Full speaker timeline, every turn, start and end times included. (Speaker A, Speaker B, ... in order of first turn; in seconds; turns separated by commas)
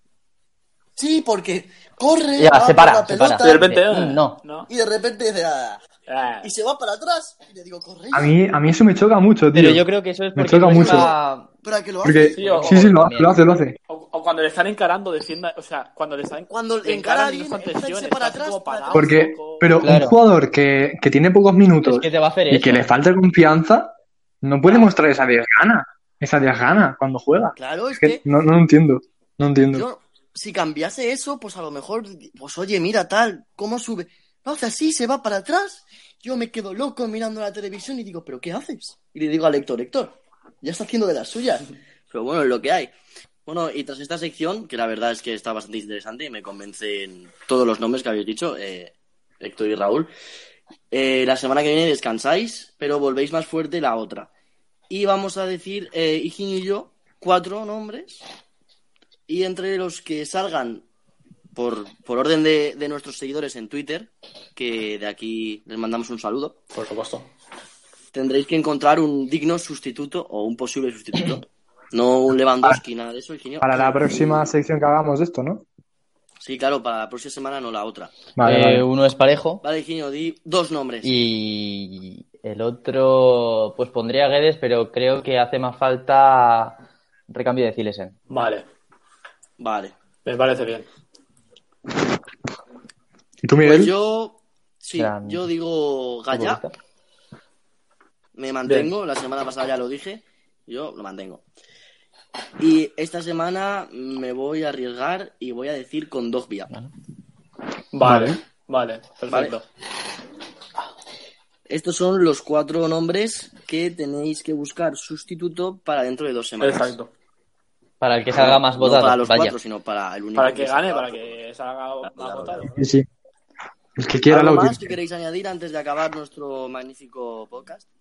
Speaker A: 1.0-3.7, Speaker B: 2.4-4.4, Speaker C: 3.4-4.7, Speaker A: 4.7-5.8, Speaker C: 6.1-6.5, Speaker A: 6.4-8.3, Speaker D: 8.1-11.1, Speaker B: 9.5-11.5, Speaker A: 10.7-12.7, Speaker D: 12.0-13.8, Speaker C: 12.3-12.9, Speaker B: 12.4-13.4, Speaker C: 13.9-19.9, Speaker A: 16.5-19.2, Speaker D: 18.9-29.9, Speaker B: 19.8-20.2, Speaker B: 21.9-22.9, Speaker A: 27.6-28.2, Speaker A: 29.7-42.9, Speaker A: 43.5-50.1, Speaker A: 50.9-54.3, Speaker A: 54.9-58.2, Speaker A: 59.3-60.9, Speaker A: 61.6-66.6, Speaker C: 66.7-67.3, Speaker A: 68.1-74.5, Speaker D: 73.6-75.7, Speaker A: 76.4-78.2, Speaker D: 78.4-78.8, Speaker B: 78.5-79.6, Speaker A: 79.6-81.2, Speaker B: 81.0-86.8, Speaker B: 87.3-88.1, Speaker C: 88.3-88.7, Speaker A: 89.6-89.9, Speaker C: 90.2-90.9, Speaker D: 93.4-93.9, Speaker A: 93.6-96.6, Speaker B: 95.0-95.5, Speaker B: 96.3-96.8, Speaker A: 98.3-101.4, Speaker C: 98.7-98.9, Speaker A: 102.6-106.7, Speaker C: 107.9-109.7, Speaker D: 108.0-108.4, Speaker A: 109.3-109.6, Speaker A: 111.7-117.0, Speaker C: 116.6-117.1, Speaker B: 118.0-119.6, Speaker A: 118.3-121.4, Speaker C: 120.4-122.9, Speaker A: 122.0-122.7, Speaker D: 122.8-123.1, Speaker D: 124.0-125.0, Speaker A: 124.3-127.9